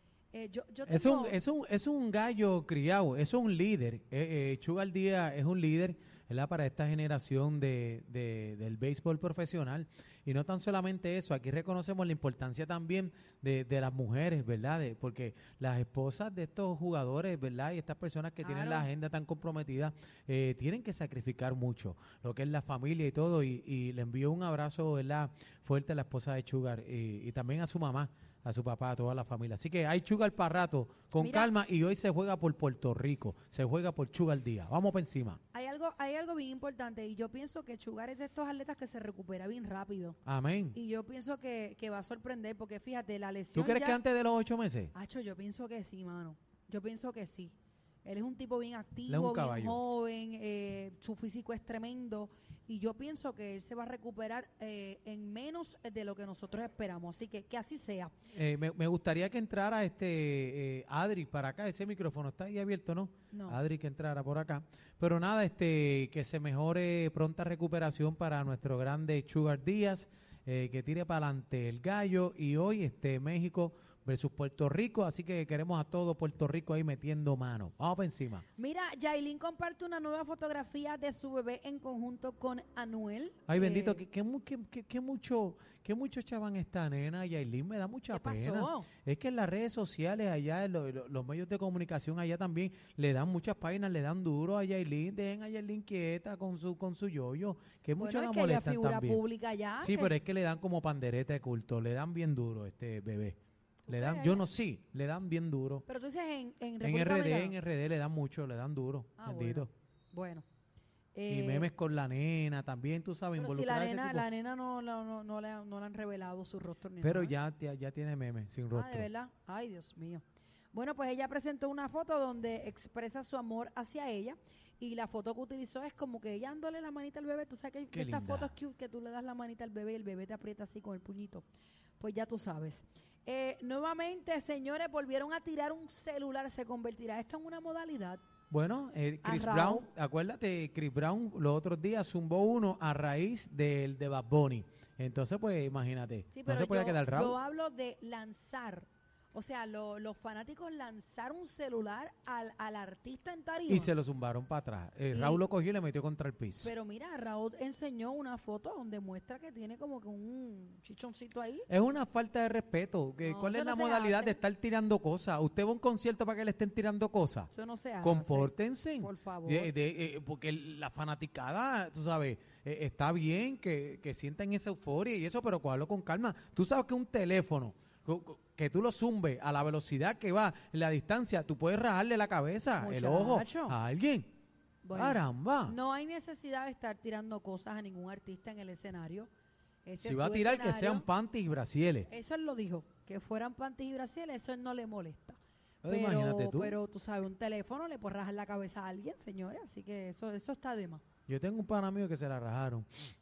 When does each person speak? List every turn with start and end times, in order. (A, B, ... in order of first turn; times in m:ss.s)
0:00.3-0:01.4 A
0:00.9-0:35.4 B
0:18.4-0:18.9 A
0:31.2-0:31.5 A
0:35.5-0:40.2 A
0:40.2-0:40.8 B
0:40.7-0:44.0 A
0:43.6-0:44.9 B
0:44.9-0:58.2 A
0:49.1-0:49.8 B
0:58.3-1:18.4 B
1:03.3-1:03.6 A
1:18.6-1:24.0 A
1:23.5-1:39.2 B
1:28.1-1:28.9 A
1:38.0-1:40.2 A
1:39.8-1:43.4 B
1:43.9-1:44.5 A
1:43.9-1:45.8 B
1:45.9-1:47.6 A
1:46.8-1:49.7 B
1:49.2-1:50.4 A
1:51.1-1:51.7 A
1:51.3-1:54.3 B
1:53.4-1:57.4 A
1:57.0-1:59.1 B
1:58.7-2:11.4 A
2:07.9-2:08.5 B
2:12.0-2:18.2 A
2:18.5-2:27.4 B
2:19.2-2:19.9 A
2:26.3-2:33.9 A
2:33.7-2:36.7 B
2:35.1-2:35.4 A
2:36.6-2:41.7 A
2:41.7-2:47.5 B
2:43.2-2:44.4 A
2:47.5-2:49.7 A
2:48.0-3:04.3 B
3:02.8-3:03.8 A
3:04.8-3:09.3 A
3:04.9-3:05.8 B
3:09.8-3:11.1 A
3:10.0-3:12.1 B
3:12.1-3:21.0 A
3:15.8-3:16.8 B
3:21.3-3:22.9 B